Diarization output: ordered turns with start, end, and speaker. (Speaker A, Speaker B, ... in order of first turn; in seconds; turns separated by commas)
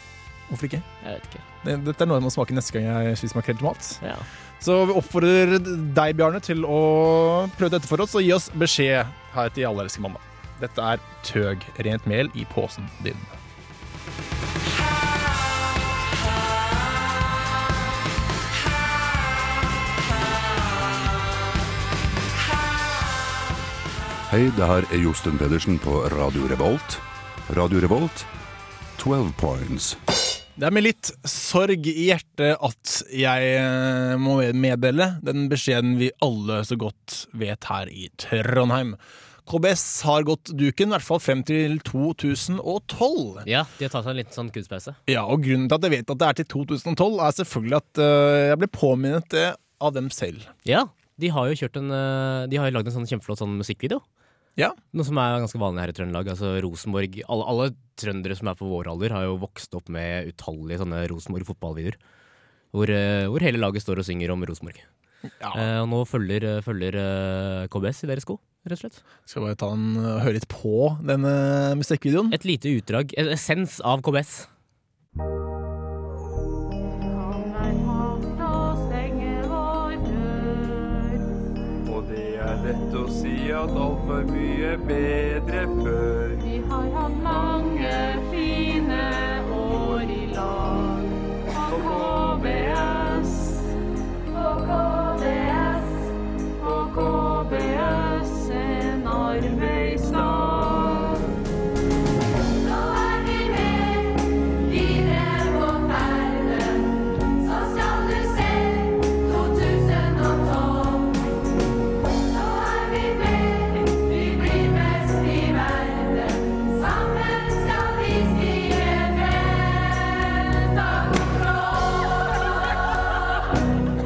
Speaker A: 0.5-0.9, Speaker B: 1.0-1.4, Speaker A: 1.6-4.0, Speaker B: 4.0-4.3, Speaker A: 4.6-13.3, Speaker C: 24.3-28.3, Speaker C: 29.0-30.0, Speaker A: 30.6-43.5, Speaker B: 43.5-45.0, Speaker A: 45.1-50.5, Speaker B: 50.6-54.0, Speaker B: 54.9-62.0, Speaker B: 62.7-64.8, Speaker A: 65.4-65.7, Speaker B: 65.5-69.0, Speaker A: 69.3-72.4, Speaker B: 72.3-74.5, Speaker D: 77.0-81.2, Speaker E: 81.8-86.4, Speaker D: 86.4-93.7, Speaker D: 94.3-101.2, Speaker D: 102.6-111.2, Speaker D: 112.3-122.0